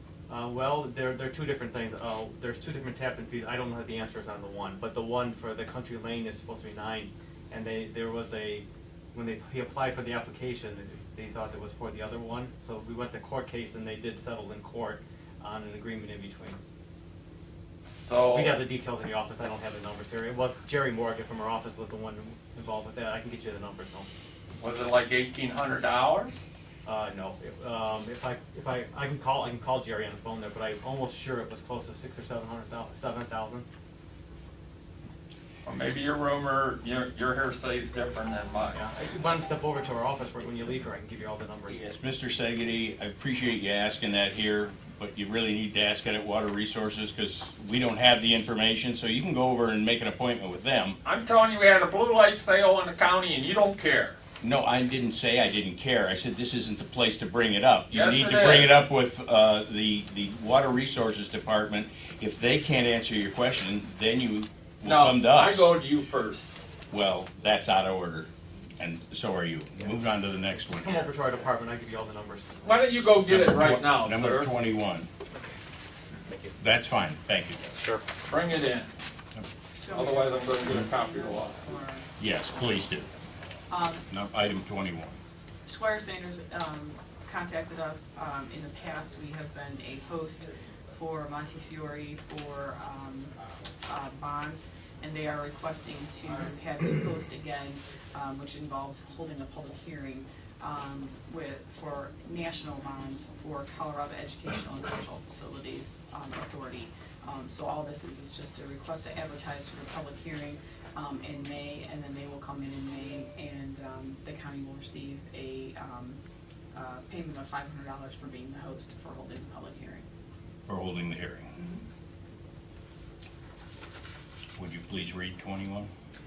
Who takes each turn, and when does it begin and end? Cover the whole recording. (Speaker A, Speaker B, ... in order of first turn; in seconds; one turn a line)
Speaker A: 0.3-16.6
Speaker B: 18.0-18.7
Speaker A: 18.3-24.1
Speaker B: 24.6-26.4
Speaker A: 26.8-33.6
Speaker B: 35.6-38.8
Speaker A: 38.7-41.8
Speaker C: 41.7-51.0
Speaker B: 51.0-54.2
Speaker C: 54.4-65.8
Speaker B: 57.9-58.8
Speaker B: 64.8-66.5
Speaker C: 66.9-71.0
Speaker A: 70.7-72.6
Speaker B: 72.6-74.5
Speaker C: 73.2-75.1
Speaker A: 76.2-76.5
Speaker C: 76.6-77.6
Speaker A: 77.7-78.0
Speaker B: 78.2-78.9
Speaker D: 79.8-82.1
Speaker B: 79.9-81.6
Speaker C: 82.2-83.1
Speaker D: 83.7-84.0
Speaker C: 84.1-85.2
Speaker D: 85.6-93.3
Speaker D: 93.8-116.2
Speaker D: 116.7-120.0
Speaker C: 120.7-121.5
Speaker D: 121.5-121.8
Speaker C: 124.6-125.9